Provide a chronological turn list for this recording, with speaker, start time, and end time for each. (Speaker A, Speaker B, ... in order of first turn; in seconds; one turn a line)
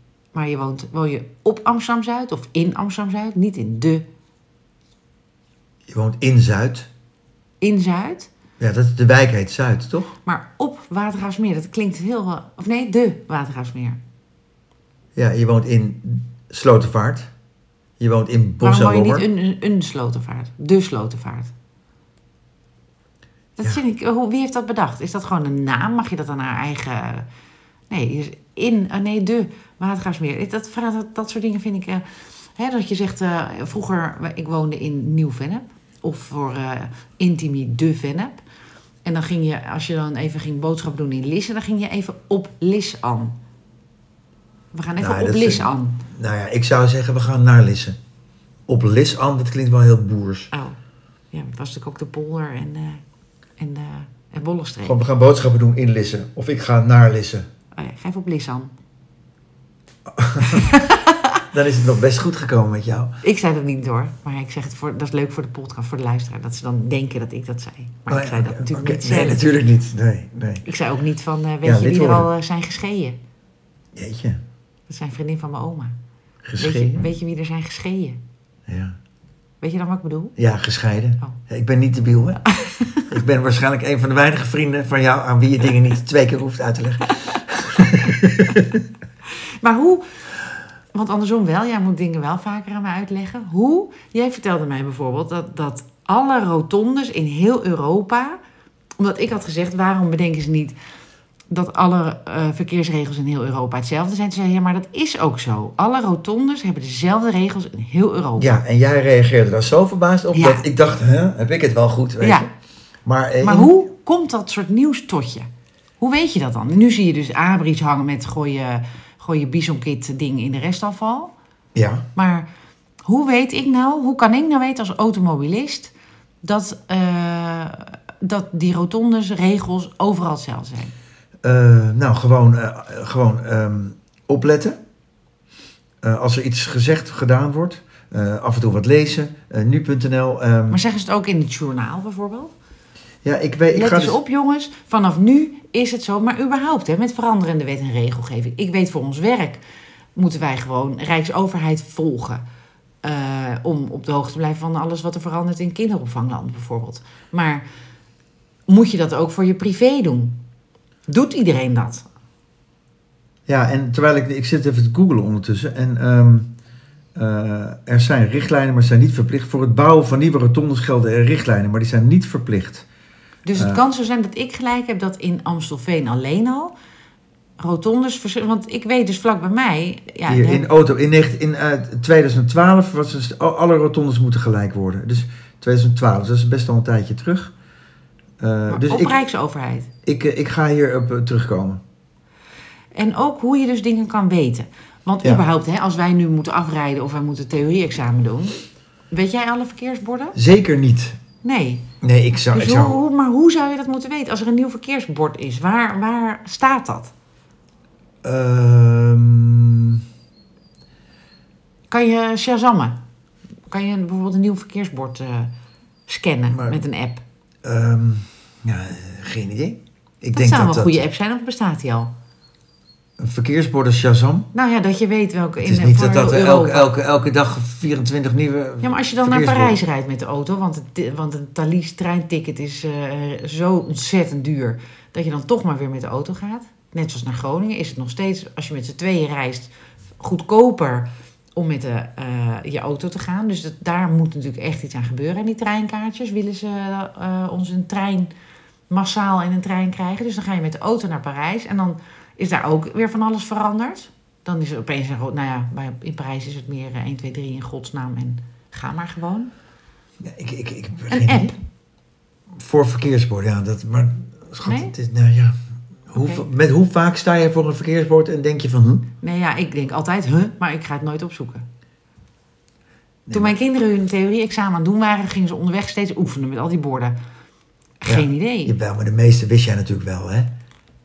Speaker A: 0.3-4.1
Speaker B: 5.9-6.9
Speaker A: 7.6-8.3
Speaker B: 8.6-10.2
Speaker A: 10.2-14.0
Speaker B: 15.2-17.3
Speaker B: 18.0-19.3
Speaker A: 18.6-21.5
Speaker A: 23.6-27.3
Speaker A: 27.9-32.0
Speaker A: 32.5-38.4
Speaker A: 39.0-43.4
Speaker A: 44.7-46.0
Speaker B: 45.0-48.0
Speaker B: 48.7-50.5
Speaker A: 50.5-50.8
Speaker A: 51.3-53.0
Speaker A: 53.6-55.0
Speaker B: 54.8-57.5
Speaker A: 57.8-58.7
Speaker B: 60.1-60.7
Speaker A: 60.4-61.4
Speaker B: 61.5-63.2
Speaker A: 63.2-69.5
Speaker B: 68.1-70.7
Speaker A: 70.6-73.2
Speaker B: 71.6-72.3
Speaker B: 74.0-74.4
Speaker A: 74.9-76.0
Speaker B: 76.5-77.1
Speaker A: 76.6-78.2
Speaker B: 78.7-79.0
Speaker A: 79.6-80.4
Speaker B: 80.4-82.4
Speaker A: 82.5-83.1
Speaker B: 83.1-88.8
Speaker A: 89.6-90.0
Speaker A: 90.9-98.4
Speaker A: 99.0-100.8
Speaker A: 101.5-108.5
Speaker B: 108.4-112.5
Speaker A: 110.3-110.7
Speaker A: 112.2-112.5
Speaker B: 113.0-113.7
Speaker A: 113.4-115.5
Speaker A: 116.0-121.3
Speaker B: 121.8-122.1
Speaker A: 122.2-122.5
Speaker A: 123.1-125.9
Speaker A: 126.4-130.9
Speaker B: 131.4-134.8
Speaker B: 136.0-140.8
Speaker A: 140.7-142.5
Speaker B: 143.2-144.2
Speaker A: 143.7-149.6
Speaker A: 150.2-152.4
Speaker A: 153.0-157.6
Speaker A: 158.7-160.4
Speaker A: 161.1-162.1
Speaker B: 163.5-166.5
Speaker B: 167.2-172.9
Speaker A: 173.4-176.7
Speaker B: 173.6-173.8
Speaker A: 177.6-180.7
Speaker B: 180.3-187.5
Speaker B: 188.4-189.2
Speaker A: 188.7-189.9
Speaker B: 190.1-191.8
Speaker A: 192.9-198.6
Speaker A: 199.1-200.4
Speaker B: 200.4-201.2
Speaker A: 201.4-201.9
Speaker B: 202.0-203.0
Speaker A: 202.5-207.1
Speaker B: 208.2-210.0
Speaker A: 211.9-213.0
Speaker A: 213.7-215.5
Speaker A: 216.1-217.2
Speaker B: 216.5-216.8
Speaker B: 217.6-221.0
Speaker A: 220.3-222.1
Speaker B: 223.2-224.5
Speaker A: 224.5-226.9
Speaker B: 225.6-229.8
Speaker A: 228.8-248.3
Speaker A: 248.9-259.5
Speaker B: 260.2-261.6
Speaker A: 261.1-261.6
Speaker B: 262.5-265.6
Speaker A: 264.6-264.9
Speaker B: 266.1-269.1
Speaker A: 266.2-266.4
Speaker A: 269.2-271.6
Speaker B: 273.3-273.6
Speaker A: 273.3-277.1
Speaker A: 278.0-278.8
Speaker B: 278.1-280.5